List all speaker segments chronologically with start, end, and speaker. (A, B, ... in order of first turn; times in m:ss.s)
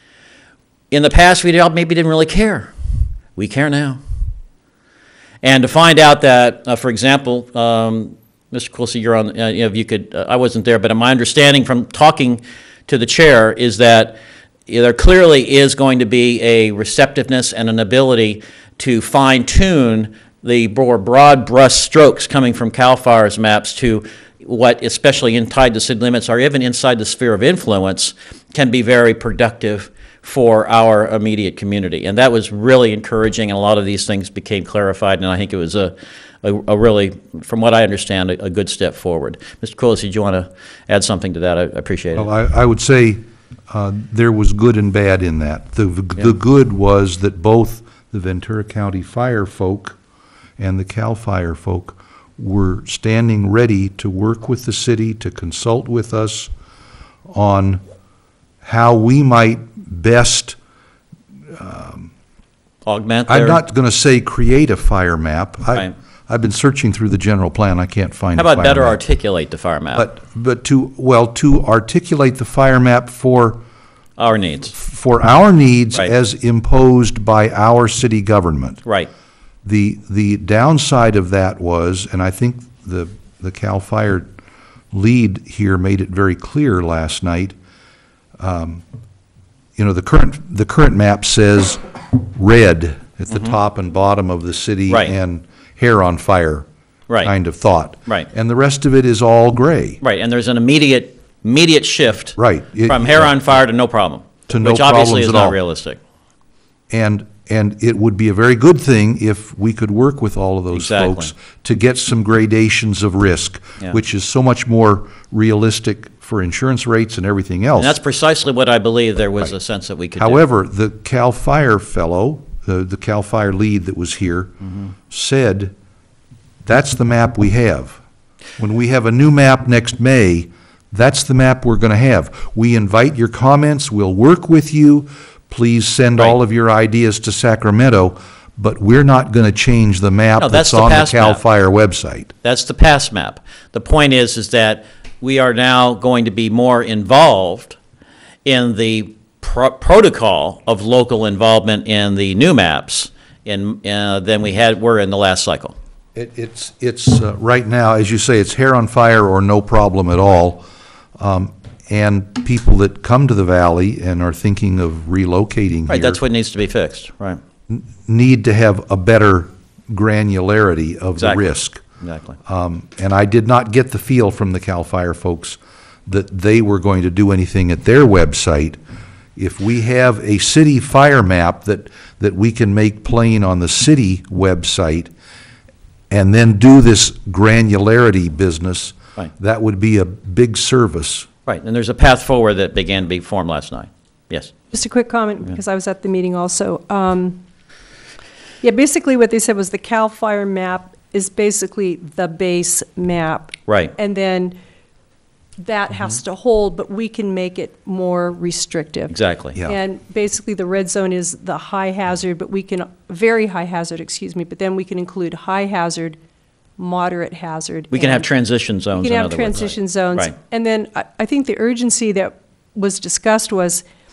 0:00.9-0:02.7 A
0:03.4-0:04.0 A
0:05.4-0:14.2 A
0:14.7-0:42.3 A
0:42.1-0:50.0 B
0:50.6-0:56.5 B
0:57.3-0:57.8 B
0:58.6-1:00.6 B
1:01.5-1:02.1 B
1:02.8-1:03.6 A
1:03.3-1:09.0 B
1:08.3-1:10.0 A
1:09.9-1:13.6 B
1:14.2-1:14.7 A
1:14.7-1:18.8 B
1:18.8-1:19.1 A
1:19.6-1:24.3 B
1:24.9-1:27.6 B
1:28.4-1:28.8 B
1:29.8-1:36.6 B
1:33.3-1:33.5 A
1:34.9-1:35.1 A
1:37.2-1:40.0 B
1:40.0-1:46.0 A
1:42.4-1:43.4 B
1:44.5-1:45.6 B
1:46.9-1:58.0 B
1:50.7-1:51.3 A
1:57.8-2:00.4 A
2:00.2-2:04.5 B
2:05.1-2:05.7 B
2:06.6-2:08.0 B
2:08.6-2:22.3 B
2:20.4-2:21.4 A
2:22.4-2:27.8 A
2:28.4-2:35.7 A
2:36.1-2:40.6 B
2:41.2-2:46.2 B
2:45.9-2:47.4 A
2:47.7-2:51.8 B
2:51.2-2:51.5 A
2:52.0-2:52.4 A
2:52.4-2:58.8 B
2:59.4-3:05.1 B
3:06.1-3:11.3 B
3:11.4-3:14.5 A
3:14.7-3:17.4 C
3:18.6-3:24.6 C
3:23.7-3:23.9 A
3:25.6-3:36.2 C
3:29.1-3:29.6 A
3:36.8-3:38.3 C
3:37.9-3:40.3 A
3:38.9-3:43.8 C